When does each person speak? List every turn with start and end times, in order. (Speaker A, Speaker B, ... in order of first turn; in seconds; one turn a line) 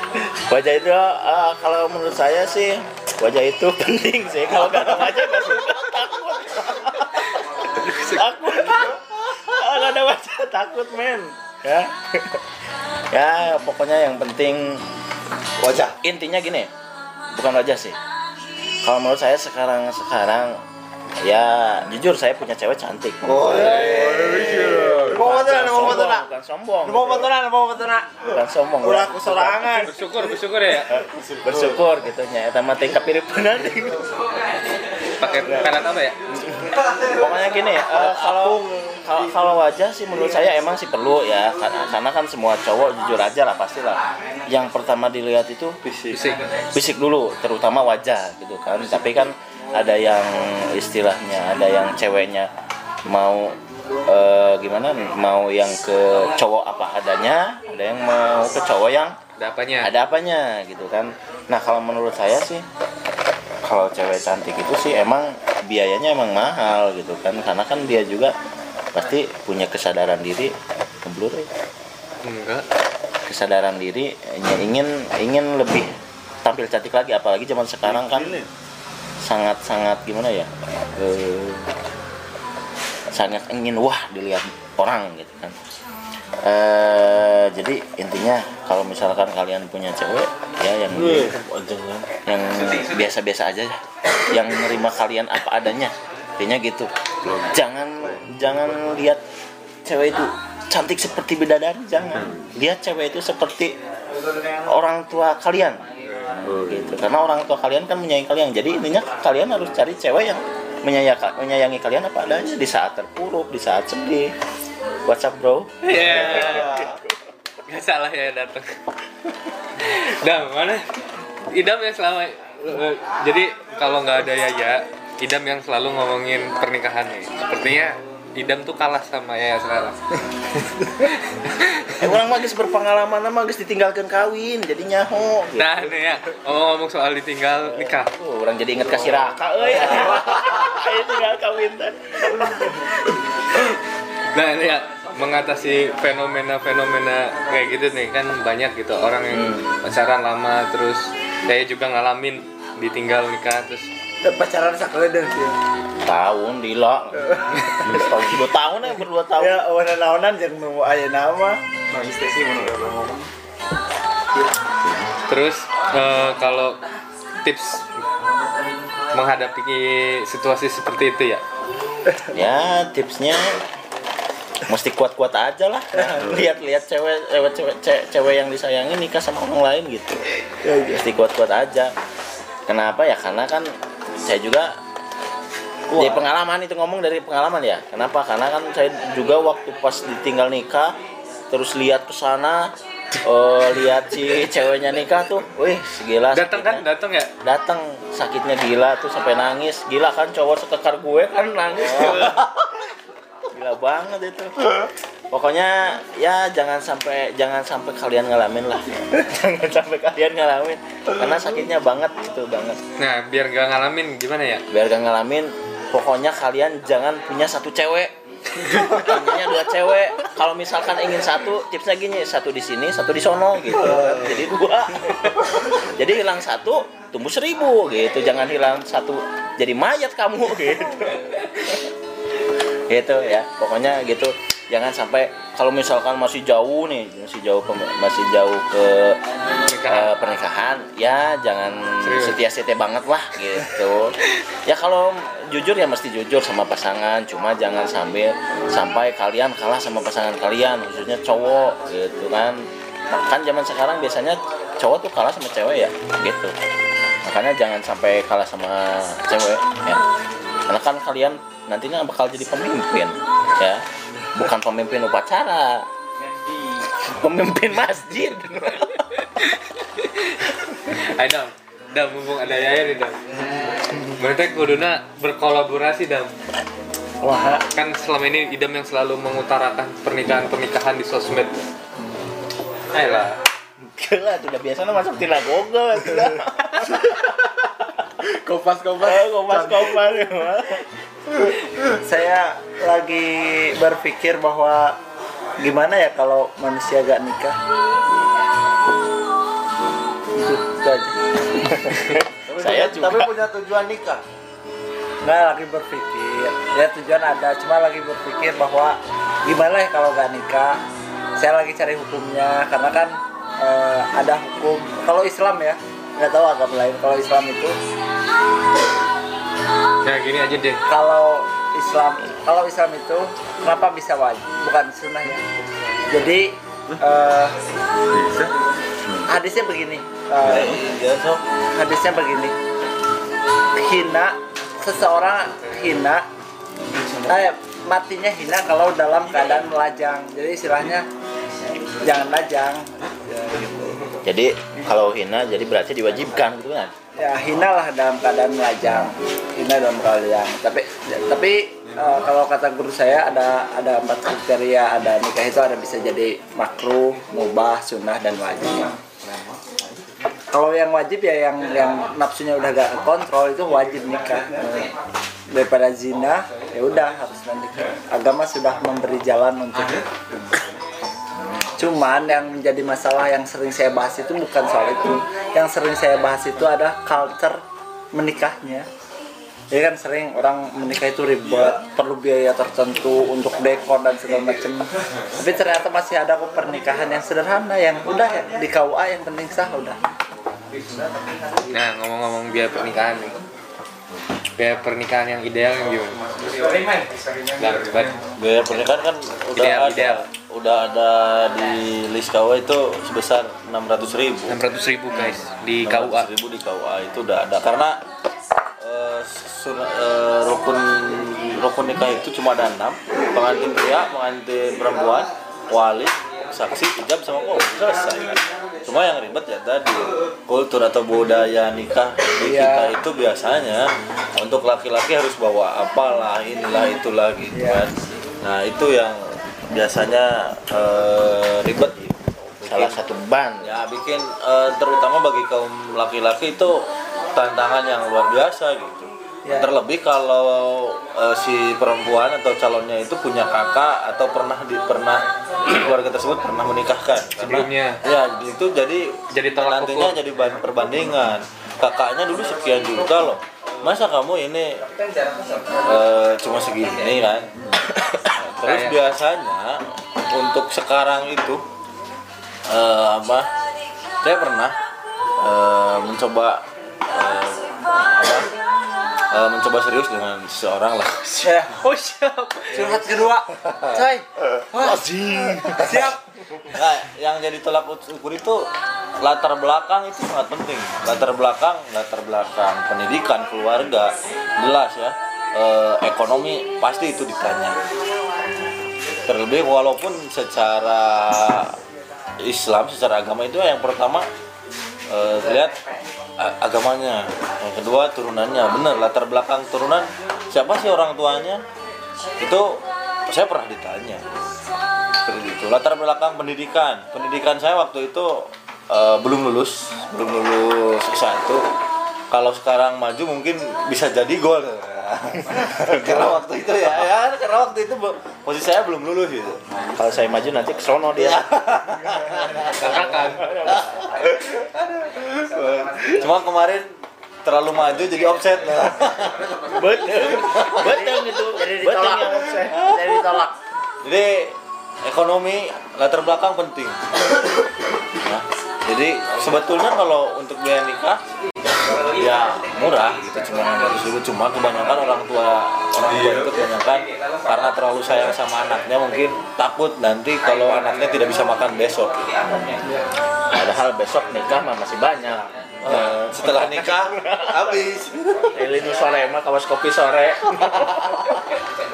Speaker A: 0.3-11.8
Speaker B: 7.9-8.2
Speaker A: 13.1-14.8
Speaker C: 15.6-15.9
Speaker A: 16.0-16.7
Speaker A: 17.4-18.0
Speaker A: 18.8-20.6
Speaker A: 21.2-23.9
Speaker C: 23.3-24.8
Speaker D: 23.4-26.2
Speaker E: 23.7-25.0
Speaker A: 25.1-27.3
Speaker D: 26.8-28.2
Speaker A: 28.3-29.9
Speaker D: 28.8-29.9
Speaker B: 29.9-30.9
Speaker A: 30.9-34.0
Speaker B: 35.2-36.2
Speaker A: 37.1-45.8
Speaker C: 38.0-39.0
Speaker C: 45.8-46.2
Speaker B: 46.1-46.5
Speaker A: 46.7-52.5
Speaker A: 53.1-53.6
Speaker A: 54.1-59.2
Speaker B: 59.4-59.9
Speaker A: 59.8-62.7
Speaker A: 63.6-68.3
Speaker A: 68.9-71.5
Speaker B: 72.2-72.6
Speaker A: 73.3-75.9
Speaker A: 76.4-78.3
Speaker C: 77.9-78.5
Speaker A: 79.2-81.7
Speaker A: 83.1-85.5
Speaker A: 86.4-91.3
Speaker C: 90.9-92.1
Speaker A: 92.3-99.2
Speaker E: 97.2-97.5
Speaker A: 99.8-103.8
Speaker E: 102.2-102.4
Speaker A: 104.6-105.8
Speaker E: 106.2-106.9
Speaker A: 106.5-114.3
Speaker A: 115.1-116.7
Speaker B: 115.8-116.8
Speaker B: 117.7-118.7
Speaker B: 119.8-120.8
Speaker B: 121.5-130.0
Speaker B: 131.5-131.9
Speaker A: 132.0-135.7
Speaker B: 135.6-138.1
Speaker A: 137.7-142.8
Speaker B: 144.3-153.9
Speaker A: 149.3-149.6
Speaker D: 154.2-155.6
Speaker A: 156.1-157.2
Speaker D: 157.3-158.1
Speaker A: 157.8-159.6
Speaker D: 159.4-163.2
Speaker B: 165.3-166.8
Speaker B: 167.4-167.9
Speaker B: 169.1-171.4
Speaker A: 172.3-173.6
Speaker A: 174.7-180.2
Speaker D: 180.6-181.0
Speaker A: 180.9-181.9
Speaker A: 182.7-183.7
Speaker A: 184.2-184.7
Speaker C: 185.9-186.2
Speaker A: 186.0-190.9
Speaker A: 191.5-192.7
Speaker A: 193.2-196.8
Speaker B: 196.3-197.3
Speaker A: 197.4-202.4
Speaker A: 203.5-204.6
Speaker A: 205.3-212.8
Speaker B: 213.0-214.6
Speaker A: 214.7-218.1
Speaker A: 218.7-231.8
Speaker A: 232.9-239.2
Speaker B: 239.6-240.2
Speaker A: 239.9-256.5
Speaker B: 242.0-242.4
Speaker A: 257.2-260.0
Speaker A: 260.7-263.8
Speaker A: 264.4-265.9
Speaker A: 267.0-269.1
Speaker B: 269.3-273.2
Speaker B: 273.9-276.3
Speaker D: 277.2-277.6
Speaker B: 277.7-281.6
Speaker B: 282.9-283.4
Speaker A: 284.0-287.3
Speaker D: 288.2-289.9
Speaker A: 289.0-290.8
Speaker D: 292.0-295.0
Speaker D: 295.6-297.6
Speaker D: 300.4-301.2
Speaker A: 301.7-303.3
Speaker C: 302.5-304.2
Speaker D: 305.2-310.8
Speaker D: 311.4-317.8
Speaker B: 320.1-320.8
Speaker D: 320.9-325.4
Speaker D: 326.1-327.6
Speaker E: 328.1-328.5
Speaker D: 329.3-330.8
Speaker C: 330.4-331.4
Speaker D: 331.8-332.6
Speaker D: 333.8-336.3
Speaker D: 337.3-341.1
Speaker D: 342.0-344.0
Speaker A: 344.2-346.9
Speaker D: 347.2-358.9
Speaker D: 360.5-364.9
Speaker D: 365.5-370.1
Speaker D: 371.8-377.6
Speaker D: 378.1-378.9
Speaker D: 379.7-384.9
Speaker D: 385.4-390.0
Speaker B: 391.7-393.4
Speaker B: 394.6-398.2
Speaker C: 398.4-404.6
Speaker B: 399.6-400.2
Speaker B: 404.5-406.3
Speaker C: 405.9-408.0
Speaker C: 408.8-433.0
Speaker D: 422.4-422.9
Speaker D: 427.5-427.8
Speaker A: 432.7-433.8
Speaker C: 433.6-436.8
Speaker C: 437.3-454.8
Speaker B: 447.4-448.0
Speaker B: 449.3-450.2
Speaker C: 455.8-457.5
Speaker C: 458.3-461.6
Speaker B: 458.6-459.0
Speaker C: 462.7-463.5
Speaker C: 464.2-464.8
Speaker C: 465.4-468.5
Speaker C: 469.3-471.6
Speaker D: 471.4-471.8
Speaker B: 471.7-473.0
Speaker D: 472.7-476.2
Speaker A: 474.9-475.7
Speaker C: 476.7-478.7
Speaker C: 479.2-487.8
Speaker C: 489.3-491.8
Speaker C: 492.4-494.3
Speaker C: 495.1-495.8
Speaker C: 496.4-501.6
Speaker C: 502.4-504.2
Speaker C: 505.2-511.6
Speaker C: 512.3-519.6
Speaker A: 520.0-521.5
Speaker C: 521.2-523.1
Speaker B: 522.7-523.6
Speaker A: 523.3-523.9
Speaker C: 523.7-526.9
Speaker C: 527.5-529.8
Speaker A: 529.7-533.1
Speaker C: 530.3-530.9
Speaker D: 530.8-533.6
Speaker C: 534.0-537.0
Speaker C: 538.2-541.2
Speaker C: 542.1-552.6
Speaker A: 553.5-557.8
Speaker C: 555.8-558.7
Speaker A: 558.5-561.4